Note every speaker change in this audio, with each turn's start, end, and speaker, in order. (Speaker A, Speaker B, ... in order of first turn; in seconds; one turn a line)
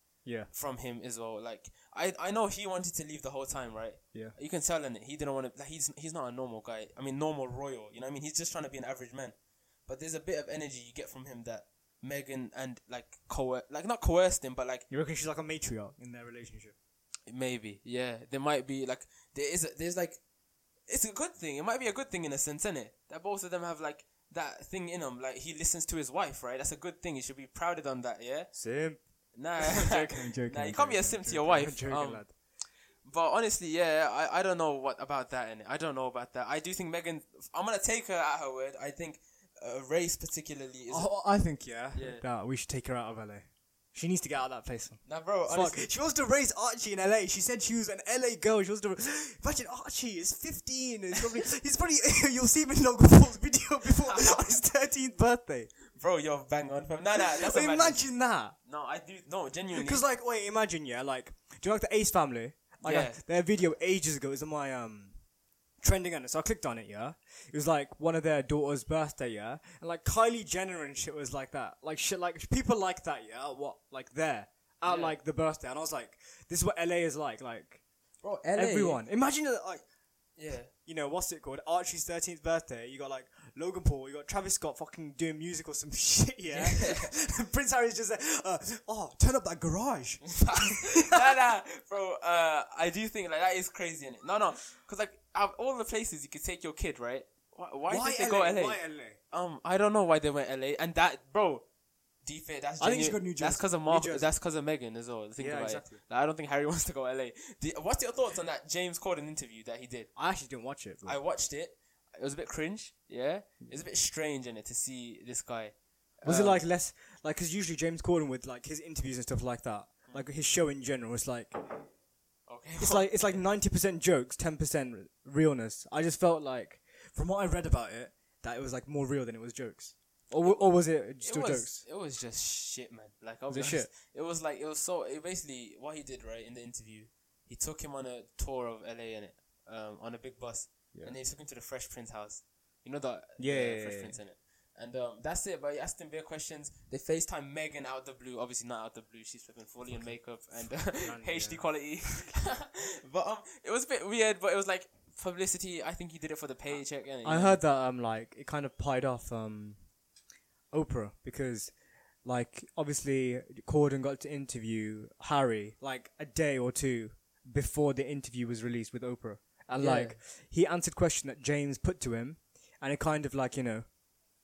Speaker A: 0.2-0.5
Speaker B: 0.5-9.3
Speaker B: 9.9-14.8
Speaker A: 14.9-16.8
Speaker B: 17.3-20.2
Speaker B: 20.9-28.5
Speaker A: 28.5-29.0
Speaker B: 29.3-32.3
Speaker A: 29.6-32.3
Speaker B: 33.0-41.1
Speaker A: 40.9-55.7
Speaker B: 41.9-42.2
Speaker B: 45.0-45.8
Speaker B: 54.0-54.5
Speaker B: 55.9-58.0
Speaker A: 57.2-58.5
Speaker B: 58.6-60.0
Speaker A: 59.7-65.1
Speaker B: 62.8-63.2
Speaker A: 65.8-77.8
Speaker B: 74.8-75.2
Speaker B: 78.2-79.0
Speaker A: 78.5-79.8
Speaker B: 80.4-80.7
Speaker A: 80.8-91.3
Speaker B: 86.5-87.1
Speaker B: 90.2-101.6
Speaker A: 97.9-99.2
Speaker B: 102.2-110.1
Speaker A: 102.8-104.3
Speaker A: 105.4-106.0
Speaker A: 110.2-111.2
Speaker B: 111.0-116.6
Speaker A: 116.2-121.8
Speaker B: 122.5-123.4
Speaker A: 122.8-131.8
Speaker B: 130.4-157.6
Speaker A: 133.5-133.9
Speaker A: 143.4-144.2
Speaker A: 150.9-151.6
Speaker A: 157.2-159.8
Speaker A: 160.7-161.7
Speaker A: 162.2-173.9
Speaker B: 169.8-170.2